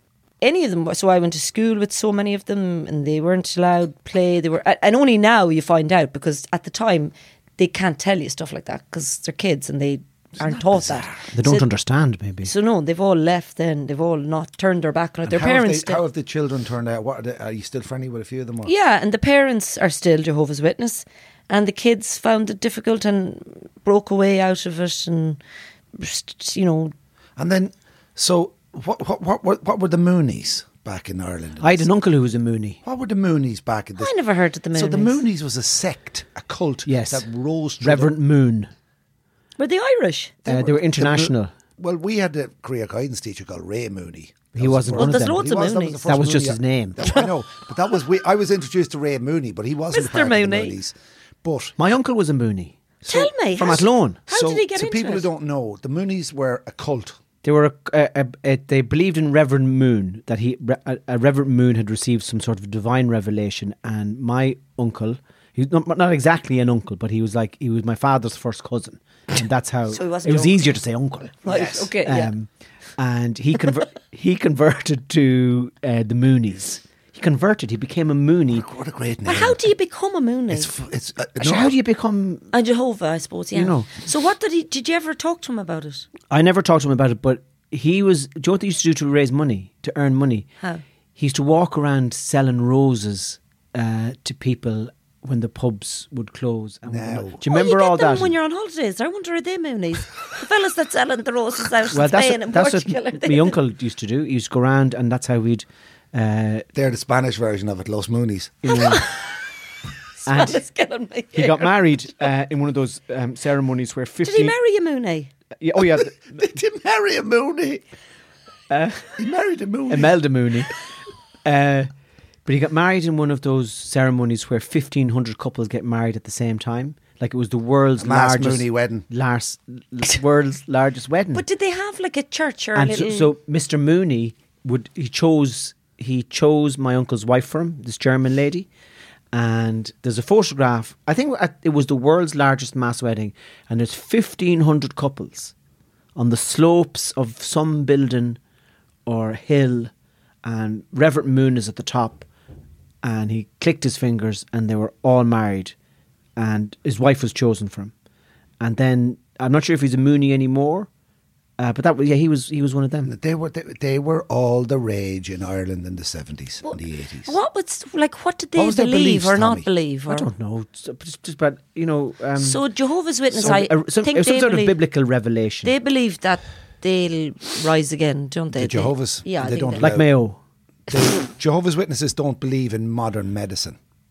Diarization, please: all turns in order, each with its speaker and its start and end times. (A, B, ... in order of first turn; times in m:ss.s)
0:00.4-0:11.7 A
0:10.4-0:11.3 B
0:11.3-0:12.5 C
0:12.4-0:16.0 A
0:15.2-0:18.7 B
0:18.6-0:25.4 A
0:26.0-0:26.9 A
0:27.4-0:31.9 B
0:31.6-0:32.8 C
0:32.8-0:34.1 B
0:34.0-0:35.2 A
0:34.7-0:38.2 B
0:36.8-0:37.2 C
0:37.8-0:38.7 C
0:39.6-0:40.4 A
0:40.4-0:51.7 B
0:40.5-0:41.5 C
0:44.5-0:45.5 C
0:44.9-0:46.1 A
0:46.0-0:47.2 C
0:49.9-0:50.8 A
0:51.8-0:54.2 C
0:53.0-0:55.3 A
0:54.3-0:57.2 B
0:57.4-1:18.6 C
1:09.9-1:10.7 A
1:11.4-1:12.3 A
1:11.5-1:11.9 B
1:18.5-1:19.6 B
1:19.2-1:20.7 A
1:20.5-1:21.8 B
1:21.4-1:22.5 C
1:22.5-1:26.1 A
1:23.5-1:23.9 C
1:26.3-1:30.5 C
1:31.2-1:38.3 C
1:36.9-1:37.4 B
1:37.4-1:43.6 A
1:41.9-1:46.7 C
1:46.7-1:48.8 B
1:48.6-1:49.0 C
1:48.7-1:49.3 A
1:50.2-1:51.8 A
1:50.2-1:50.6 C
1:51.3-1:54.6 C
1:54.2-1:55.3 A
1:55.6-1:56.4 C
1:55.8-1:57.8 B
1:58.7-1:59.2 C
1:59.2-2:00.2 B
1:59.9-2:00.8 C
2:01.4-2:01.9 C
2:02.4-2:11.4 C
2:08.0-2:09.1 B
2:11.3-2:13.3 A
2:12.7-2:18.7 C
2:19.3-2:25.5 C
2:26.2-2:28.4 C
2:29.0-2:29.9 C
2:30.4-2:32.2 C
2:33.0-2:35.7 C
2:36.4-2:37.9 C
2:38.6-2:40.9 C
2:41.6-2:43.1 C
2:43.0-2:47.3 B
2:46.6-2:50.3 A
2:48.6-2:49.7 B
2:50.1-2:52.6 C
2:52.4-2:54.8 A
2:53.3-2:55.7 C
2:55.6-2:59.9 A
2:58.5-3:00.1 B
2:59.8-3:00.4 C
3:00.9-3:03.8 B